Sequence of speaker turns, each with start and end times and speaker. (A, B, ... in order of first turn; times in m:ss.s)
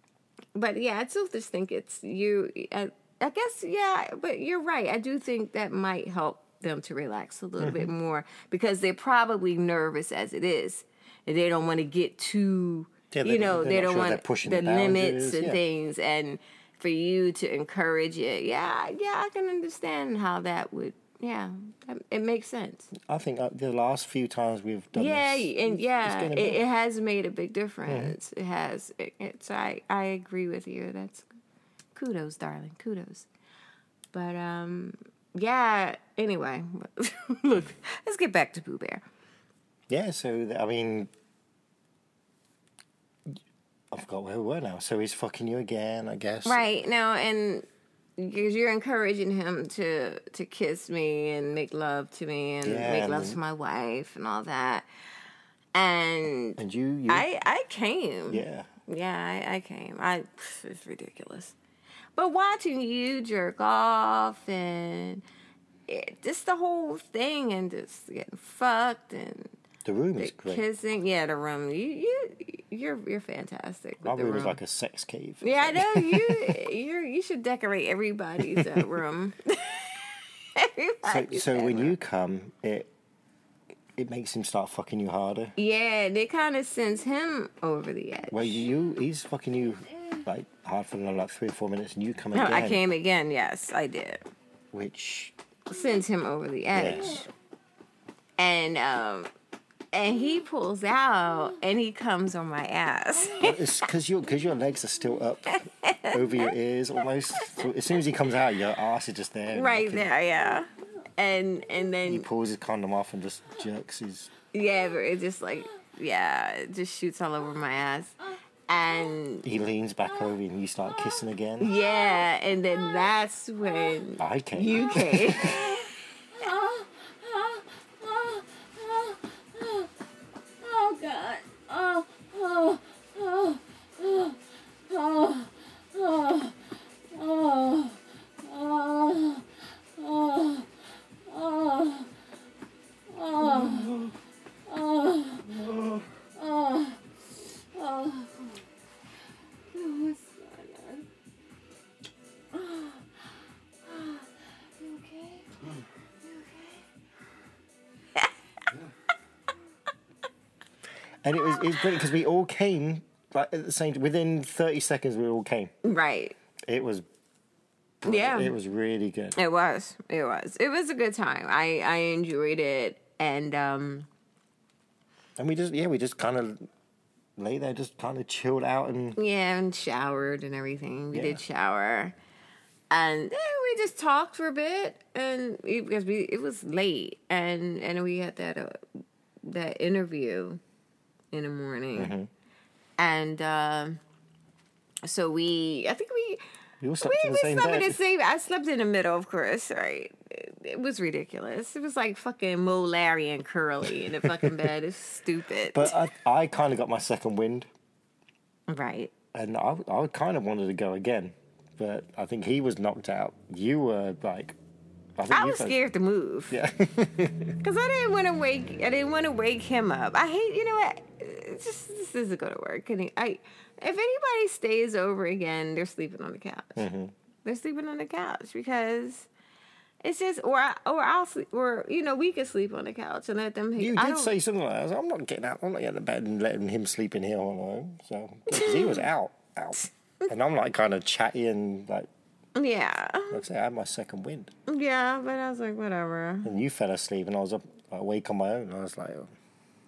0:00.6-0:22.9 A
0:07.6-0:07.9 B
0:13.1-0:15.6 B
0:22.9-0:26.6 B
0:24.9-0:31.3 A
0:27.9-0:28.2 B
0:31.9-0:33.3 A
0:34.1-0:39.0 A
0:39.9-0:41.1 B
0:43.9-0:46.6 B
0:46.4-0:47.6 A
0:48.2-0:54.8 A
0:52.6-0:53.4 B
0:55.7-1:01.6 A
0:56.6-0:57.2 B
0:58.3-0:58.7 B
1:02.2-1:05.2 A
1:05.9-1:09.5 A
1:09.8-1:10.6 B
1:10.2-1:14.6 A
1:14.0-1:16.7 B
1:15.4-1:21.9 A
1:18.4-1:18.9 B
1:21.1-1:22.9 B
1:24.0-1:25.5 B
1:25.6-1:28.6 A
1:28.3-1:32.8 B
1:32.3-1:34.2 A
1:34.7-1:35.3 B
1:35.7-1:37.3 A
1:36.7-1:37.2 B
1:38.4-1:39.3 A
1:39.9-1:43.6 A
1:43.4-1:50.1 B
1:45.6-1:46.5 A
1:49.5-1:52.3 A
1:52.0-1:54.3 B
1:54.5-1:59.4 A
1:59.4-2:01.7 B
2:01.6-2:05.9 A
2:01.8-2:02.2 C
2:04.2-2:05.7 B
2:05.4-2:09.9 C
2:10.6-2:16.6 C
2:17.1-2:20.7 C
2:21.2-2:22.1 C
2:23.1-2:24.1 C
2:24.6-2:27.0 C
2:27.7-2:28.6 C
2:29.7-2:31.0 C
2:32.6-2:33.0 C
2:33.9-2:34.2 C
2:34.8-2:35.4 C
2:41.2-2:45.7 B
2:45.8-2:46.4 A
2:46.7-2:47.0 B
2:48.0-2:49.4 B
2:48.0-2:48.5 A
2:49.4-2:54.1 A
2:55.4-2:56.7 B
2:57.4-2:59.2 B
2:59.2-3:02.1 A
3:01.1-3:01.4 B
3:02.9-3:10.6 A
3:11.3-3:12.1 A
3:12.0-3:12.3 B
3:13.0-3:14.0 A
3:15.0-3:16.4 A
3:16.8-3:18.0 B
3:17.0-3:26.0 A
3:24.2-3:24.7 B
3:25.7-3:27.7 B
3:28.7-3:29.1 A
3:29.3-3:34.6 B
3:35.2-3:35.8 B
3:35.3-3:36.6 A
3:36.5-3:37.5 B
3:37.6-3:46.8 A
3:46.8-3:47.1 B
3:47.4-3:49.3 A
3:50.0-3:54.3 A
3:53.8-4:02.1 B
3:58.5-3:59.0 A
4:02.6-4:03.4 A
4:03.3-4:04.5 B
4:04.7-4:06.5 A
4:06.4-4:09.3 B